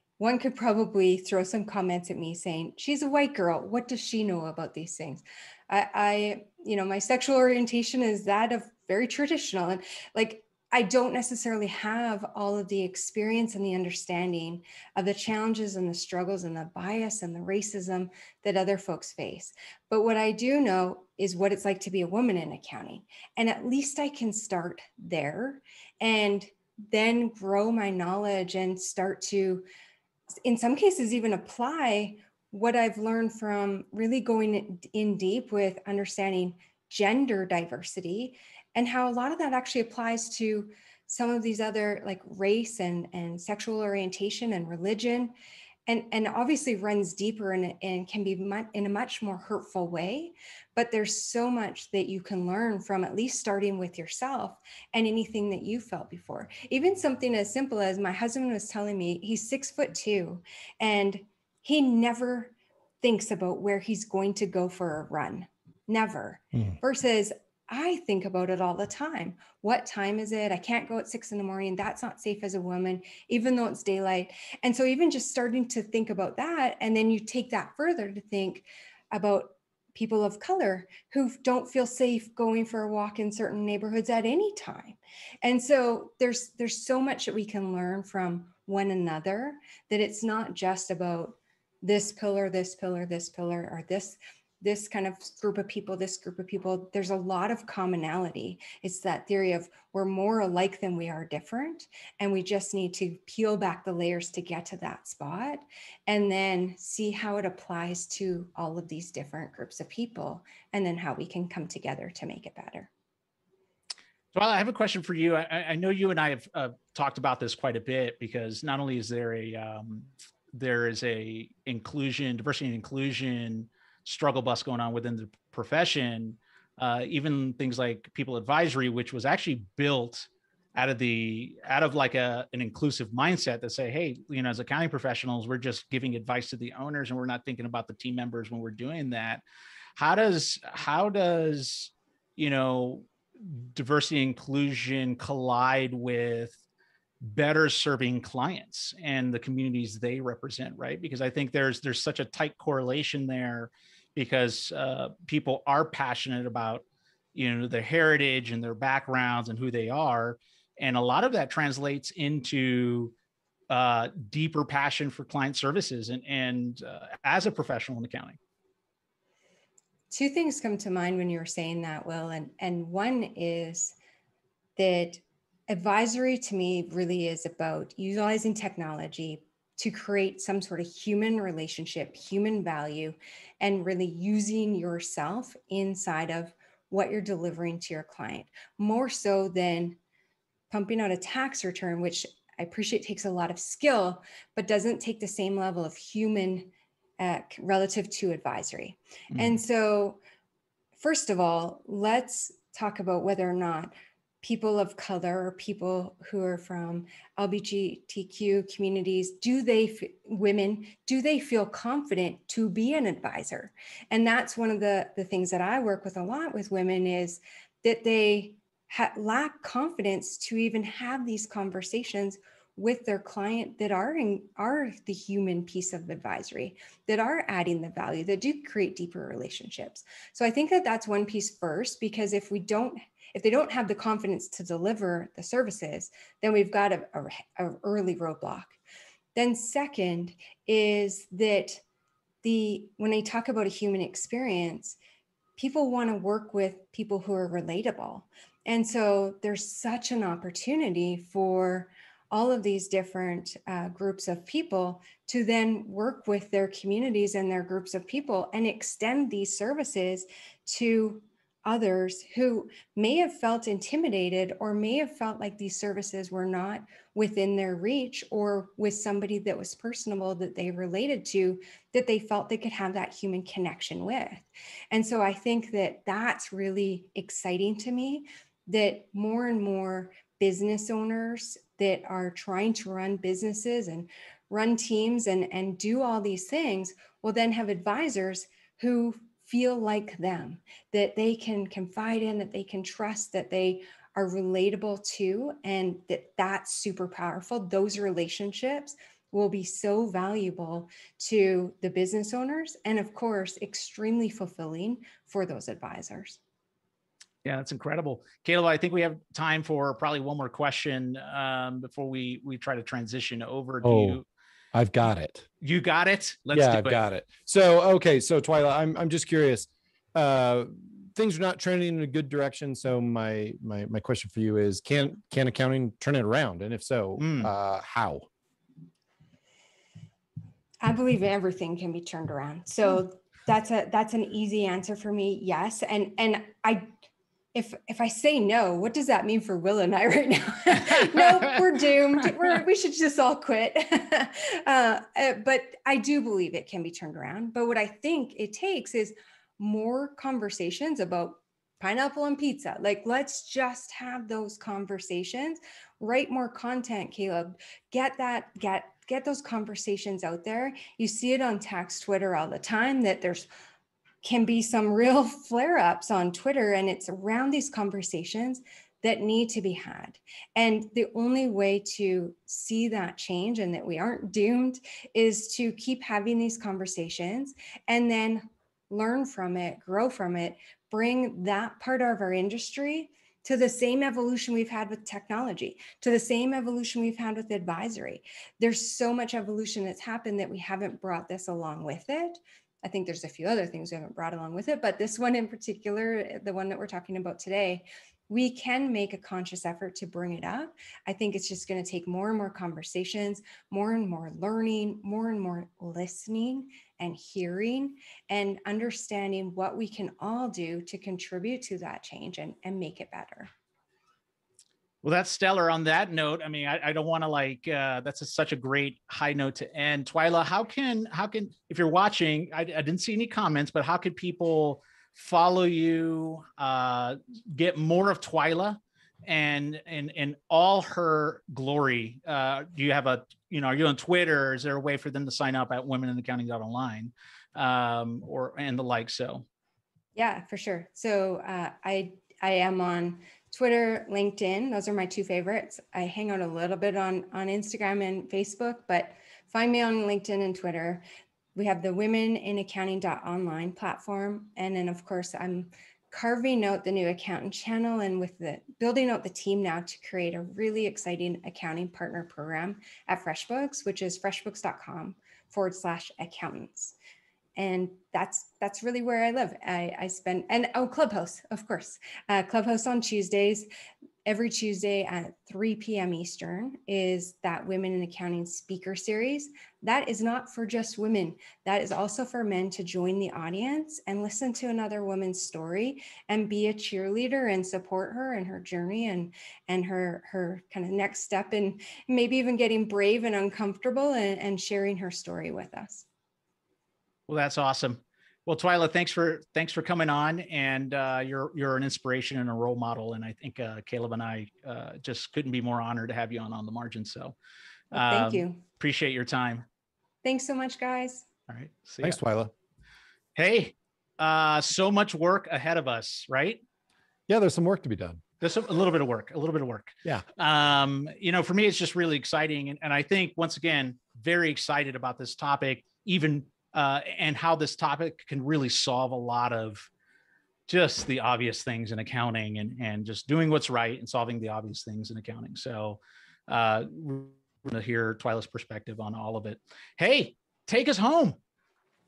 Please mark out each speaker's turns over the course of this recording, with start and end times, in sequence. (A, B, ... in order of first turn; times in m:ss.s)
0:00.2-0:29.7 A
0:30.4-0:45.3 A
0:45.9-1:52.9 A
1:54.3-2:19.4 B
2:20.0-2:26.6 B
2:27.2-2:36.8 B
2:37.3-2:43.1 B
2:43.7-2:48.4 B
2:50.1-2:54.0 A
2:54.8-3:10.0 A
3:10.7-3:20.2 A
3:19.3-3:19.6 B
3:21.0-3:58.8 A
3:59.3-4:01.8 A
4:02.4-4:05.0 A
4:05.6-5:06.4 A
5:07.4-5:14.2 B
5:13.8-5:14.2 C
5:14.7-5:15.5 C
5:15.6-5:17.0 B
5:16.5-5:28.3 C
5:27.2-5:27.5 B
5:30.8-5:36.9 A
5:37.5-6:03.5 A
6:04.2-6:53.5 A
6:55.0-7:19.4 B
7:20.2-7:31.0 A
7:31.5-7:47.0 A
7:47.6-7:53.7 A
7:54.2-8:16.0 A
8:17.3-8:27.4 B
8:27.9-8:28.6 A
8:27.9-8:29.6 B
8:30.2-8:31.2 A
8:31.5-8:32.2 B
8:32.0-8:32.5 C
8:33.4-8:36.6 B
8:37.3-8:38.2 C
8:38.4-8:49.9 B
8:50.7-9:01.4 B